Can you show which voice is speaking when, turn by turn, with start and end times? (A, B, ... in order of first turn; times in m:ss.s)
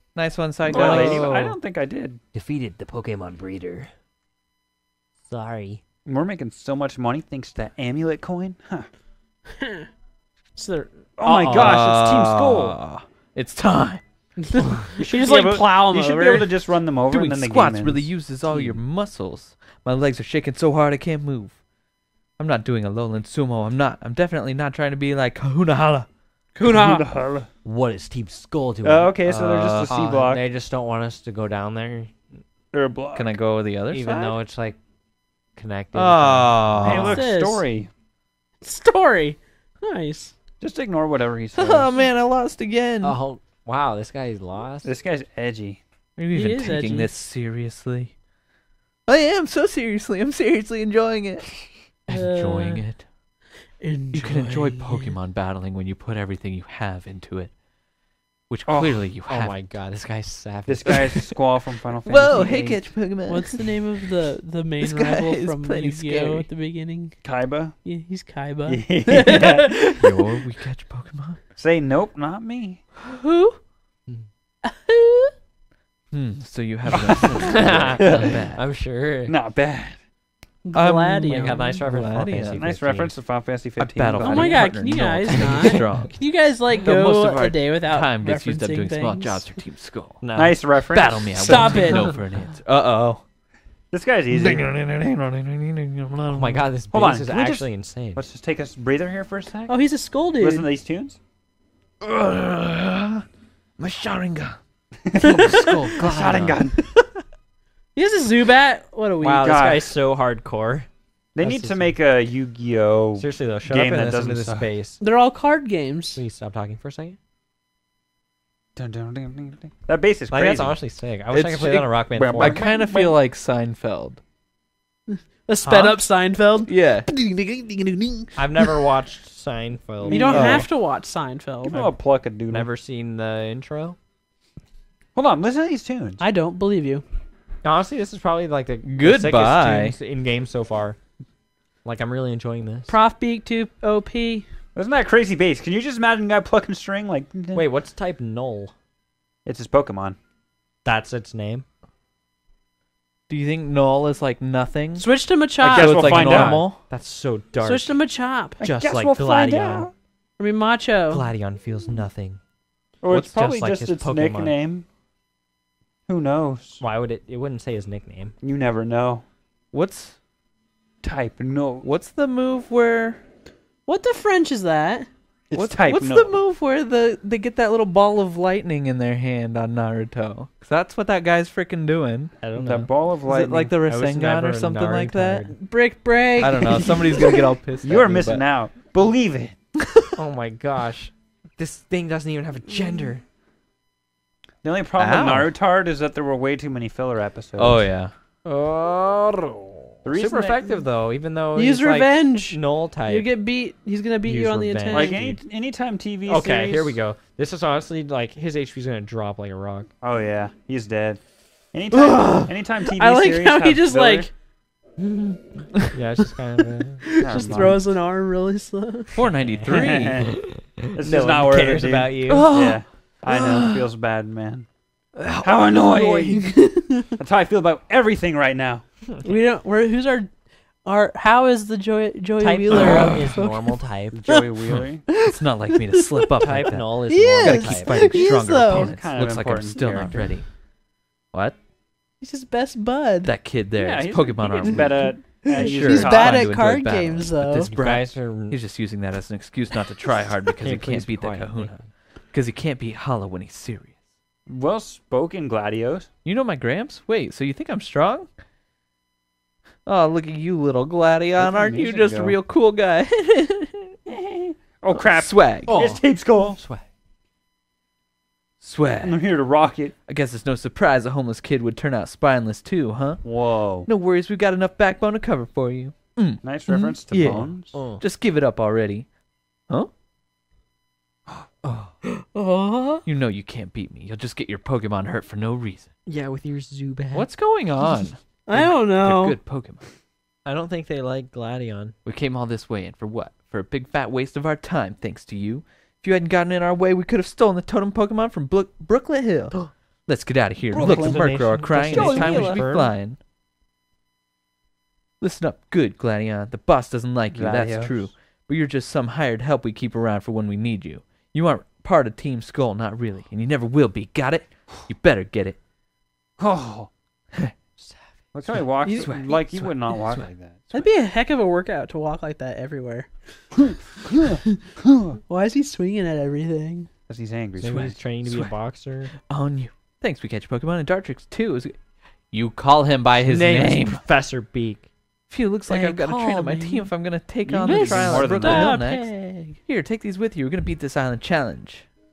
0:00.2-0:01.5 A
0:00.7-0:02.2 B
0:00.7-0:01.5 C
0:02.3-0:03.9 C
0:05.3-0:05.8 C
0:06.0-0:08.9 B
0:09.6-0:09.9 D
0:10.6-0:11.1 D
0:11.2-0:12.8 B
0:11.2-0:14.0 A
0:14.4-0:16.5 D
0:15.0-0:18.1 B
0:17.1-0:21.6 A
0:18.5-0:18.8 C
0:22.4-0:26.1 A
0:26.6-0:27.0 D
0:26.6-0:27.5 B
0:27.6-0:29.1 C
0:28.8-0:30.4 B
0:29.2-0:30.0 A
0:29.9-0:32.4 C
0:32.7-0:33.4 B
0:33.1-0:34.4 A
0:33.9-0:34.8 C
0:35.6-0:37.2 C
0:35.9-0:37.2 A
0:36.8-0:37.9 B
0:36.9-0:37.6 D
0:38.6-0:40.3 D
0:40.6-0:42.0 B
0:41.6-0:43.2 A
0:43.0-0:44.9 C
0:44.8-0:45.8 B
0:46.2-0:48.1 A
0:46.3-0:47.1 D
0:49.1-0:53.0 A
0:52.1-0:52.8 D
0:53.8-0:55.1 D
0:54.1-0:57.5 A
0:58.5-0:59.6 A
0:58.7-0:59.0 B
0:59.3-1:01.2 C
1:00.7-1:02.8 B
1:02.0-1:03.7 A
1:03.3-1:07.2 D
1:04.8-1:06.4 A
1:07.2-1:07.7 B
1:07.8-1:10.3 D
1:08.6-1:09.7 B
1:10.0-1:11.4 A
1:11.6-1:12.8 B
1:13.1-1:13.6 D
1:14.6-1:15.3 D
1:16.1-1:18.6 A
1:16.9-1:18.4 B
1:17.4-1:19.4 C
1:19.3-1:20.0 B
1:20.6-1:21.8 D
1:20.7-1:22.7 A
1:21.3-1:23.1 C
1:22.6-1:24.6 B
1:23.8-1:26.1 A
1:24.2-1:29.4 D
1:26.8-1:30.2 A
1:30.2-1:30.6 C
1:30.3-1:31.9 B
1:30.9-1:33.2 A
1:31.3-1:32.2 D
1:33.9-1:34.6 B
1:34.3-1:36.6 A
1:36.3-1:38.2 C
1:36.9-1:39.8 B
1:39.7-1:40.7 D
1:40.4-1:41.2 B
1:42.0-1:43.2 A
1:43.8-1:44.6 A
1:45.0-1:46.8 B
1:45.2-1:46.0 D
1:45.2-1:46.6 A
1:45.6-1:46.6 C
1:48.0-1:49.6 D
1:49.2-1:50.9 C
1:49.2-1:49.9 B
1:51.3-1:54.7 B
1:51.4-1:52.0 C
1:53.2-1:55.0 C
1:55.0-1:56.2 D
1:56.1-1:57.2 C
1:58.8-2:00.8 B
2:00.3-2:02.7 C
2:01.3-2:04.2 A
2:02.2-2:03.2 B
2:05.1-2:08.8 D
2:05.6-2:06.0 A
2:06.6-2:07.1 A
2:08.4-2:10.6 C
2:10.0-2:10.7 B
2:10.1-2:11.8 D
2:10.3-2:10.6 A
2:11.6-2:12.7 B
2:12.5-2:14.0 C
2:15.1-2:16.2 B
2:16.2-2:17.0 D
2:17.6-2:21.0 C
2:18.8-2:19.9 A
2:21.8-2:22.9 C
2:22.9-2:24.4 D
2:24.7-2:27.6 B
2:27.5-2:28.7 C
2:29.4-2:30.2 B
2:30.8-2:31.6 C
2:33.3-2:35.1 A
2:35.0-2:36.2 D
2:35.6-2:36.8 A
2:35.6-2:36.6 B
2:36.0-2:38.0 C
2:37.6-2:38.6 D
2:38.6-2:39.9 C
2:38.6-2:39.9 B
2:40.4-2:41.2 D
2:41.1-2:42.4 C
2:43.0-2:44.8 B
2:43.1-2:44.5 C
2:46.1-2:46.8 B
2:46.8-2:48.3 C
2:48.4-2:49.2 B
2:49.7-2:50.2 A
2:51.0-2:51.9 B
2:51.8-2:53.2 A
2:53.9-2:55.1 D
2:55.5-2:56.4 B
2:55.5-3:05.4 A
3:02.4-3:02.9 C
3:02.6-3:03.7 B
3:03.8-3:05.6 C
3:05.5-3:07.4 D
3:06.4-3:08.4 A
3:07.8-3:09.5 B
3:10.1-3:13.2 C
3:14.6-3:17.8 B
3:15.0-3:15.5 A
3:17.6-3:18.1 A
3:18.4-3:23.3 C
3:20.0-3:20.7 B
3:21.5-3:25.2 D
3:24.2-3:25.4 C
3:24.9-3:27.0 B
3:26.3-3:29.9 C
3:30.0-3:31.2 B
3:31.7-3:34.3 B
3:32.0-3:34.3 D
3:35.0-3:37.8 C
3:37.1-3:39.2 D
3:37.2-3:37.8 B
3:39.1-3:40.2 A
3:39.4-3:42.4 C
3:39.6-3:40.3 B
3:40.9-3:44.7 B
3:42.3-3:43.8 A
3:45.4-3:46.5 B
3:45.9-3:46.3 C
3:46.2-3:47.1 D
3:47.2-3:48.8 B
3:49.2-3:50.3 D
3:50.8-3:56.3 D
3:52.4-3:54.2 C
3:52.8-3:53.2 A
3:54.1-3:55.0 B
3:55.2-4:00.5 A
3:56.4-3:58.0 C
3:57.1-3:58.9 D
3:58.6-4:00.3 B
4:02.2-4:03.3 D
4:03.2-4:14.0 A
4:03.8-4:06.5 B
4:05.4-4:07.7 D
4:07.6-4:08.6 C
4:10.6-4:11.9 C
4:14.5-4:16.1 B
4:16.2-4:18.3 A
4:19.8-4:24.0 A
4:21.4-4:22.4 B
4:24.1-4:26.6 B
4:24.9-4:26.0 A
4:25.7-4:26.8 C
4:28.6-4:29.2 A
4:29.0-4:29.9 B
4:30.1-4:33.3 A
4:33.2-4:33.9 B
4:33.8-4:39.1 A
4:36.4-4:37.8 B
4:37.7-4:38.0 C
4:41.6-4:43.0 C
4:42.3-4:43.0 D
4:43.0-4:45.9 A
4:46.0-4:47.3 C
4:47.1-4:49.8 A
4:48.5-4:49.4 D
4:50.4-4:52.0 C
4:52.0-5:03.2 A
5:00.7-5:02.6 B
5:00.8-5:02.9 C
5:05.2-5:15.6 A
5:07.3-5:08.1 B
5:16.4-5:16.9 B
5:17.8-5:18.6 C
5:18.3-5:20.8 B
5:18.8-5:19.3 D
5:19.0-5:19.6 A
5:20.7-5:24.6 D
5:24.0-5:25.2 B
5:25.3-5:26.9 D
5:27.1-5:28.0 B
5:27.6-5:29.1 C
5:28.2-5:28.5 A
5:29.3-5:34.0 A
5:33.2-5:34.9 C
5:35.3-5:39.1 A
5:35.7-5:36.9 D
5:35.8-5:36.8 C
5:37.6-5:39.6 D
5:37.6-5:38.8 B
5:39.6-5:41.8 A